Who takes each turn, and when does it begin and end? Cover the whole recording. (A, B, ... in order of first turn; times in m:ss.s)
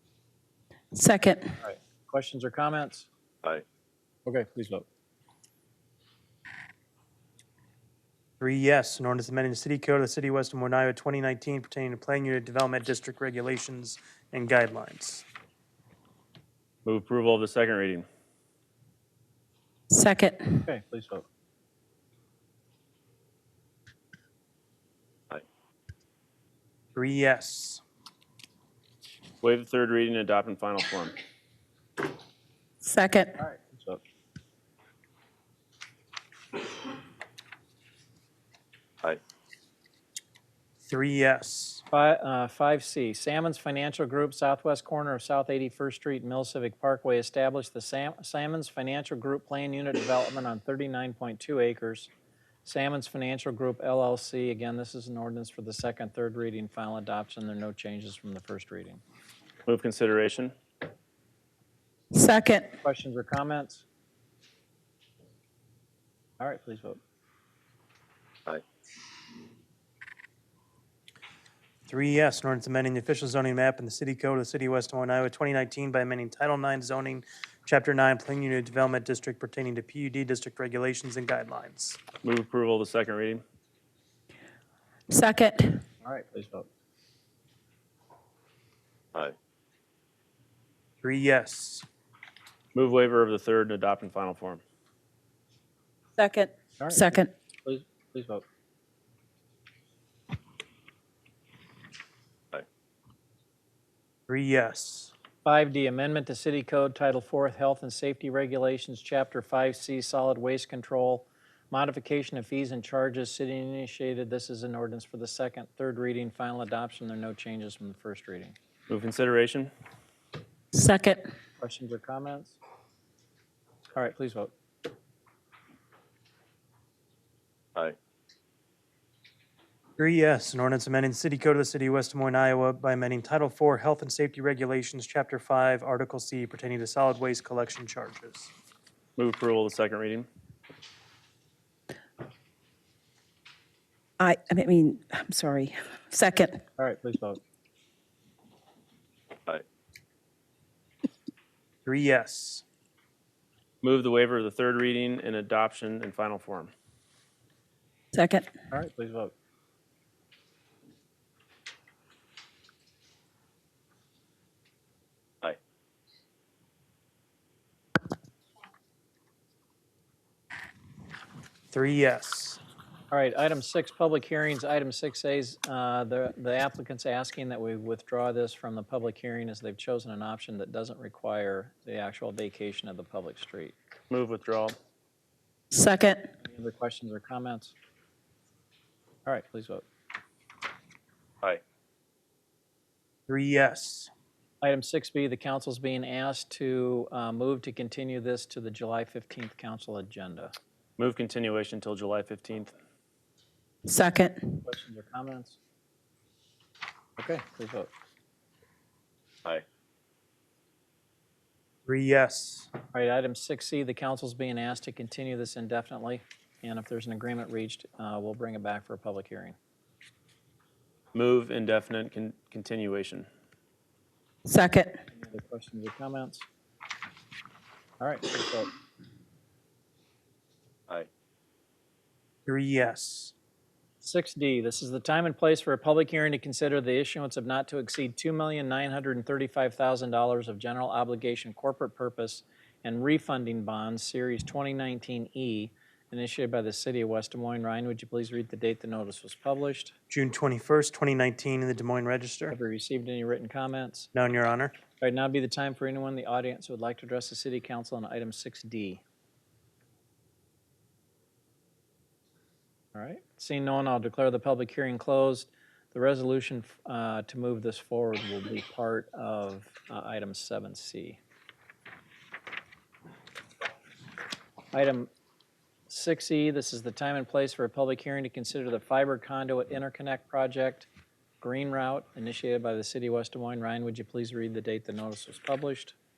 0:00.9-0:01.5 A
0:01.6-0:03.1 B
0:04.3-0:04.9 B
0:08.4-0:15.2 C
0:16.8-0:18.0 D
0:19.9-0:20.6 A
0:20.7-0:21.2 B
0:27.0-0:27.8 C
0:29.4-0:31.2 D
0:32.8-0:33.4 A
0:33.4-0:34.0 B
0:40.9-0:41.8 C
0:41.9-0:52.1 B
0:52.6-0:59.0 B
0:59.7-1:00.5 D
1:02.1-1:02.7 A
1:02.8-1:03.8 B
1:06.4-1:07.0 B
1:11.9-1:22.0 C
1:22.2-1:23.4 D
1:25.1-1:25.8 A
1:26.0-1:26.7 B
1:31.0-1:31.9 C
1:32.7-1:34.6 D
1:36.2-1:37.3 A
1:36.8-1:38.4 B
1:44.3-1:45.1 C
1:45.4-1:58.6 B
1:58.9-1:59.7 D
2:00.7-2:01.2 A
2:01.6-2:02.6 B
2:04.0-2:04.5 B
2:10.0-2:18.5 C
2:19.2-2:20.3 D
2:24.2-2:26.6 A
2:26.8-2:27.4 B
2:31.8-2:32.6 C
2:33.8-2:36.7 D
2:38.1-2:38.5 A
2:38.7-2:39.3 B
2:51.7-2:52.6 C
2:53.1-3:03.8 B
3:04.1-3:04.8 D
3:05.7-3:06.3 A
3:06.4-3:07.7 B
3:09.2-3:09.8 B
3:13.3-3:14.1 C
3:14.6-3:20.5 B
3:21.0-3:22.7 D
3:23.9-3:24.6 A
3:24.6-3:25.6 B
3:27.2-3:27.9 B
3:31.9-3:32.7 C
3:32.9-3:39.6 B
3:41.1-3:43.3 D
3:44.5-3:45.0 A
3:45.1-3:46.4 B
3:48.0-3:48.7 B
3:52.5-3:53.3 C
3:54.0-4:10.0 B
4:10.1-4:12.6 C
4:12.5-4:14.1 B
4:14.1-4:14.8 C
4:15.0-4:19.0 B
4:22.9-4:31.2 B
4:34.7-4:35.1 B
4:35.9-4:40.9 B
4:41.4-4:46.0 B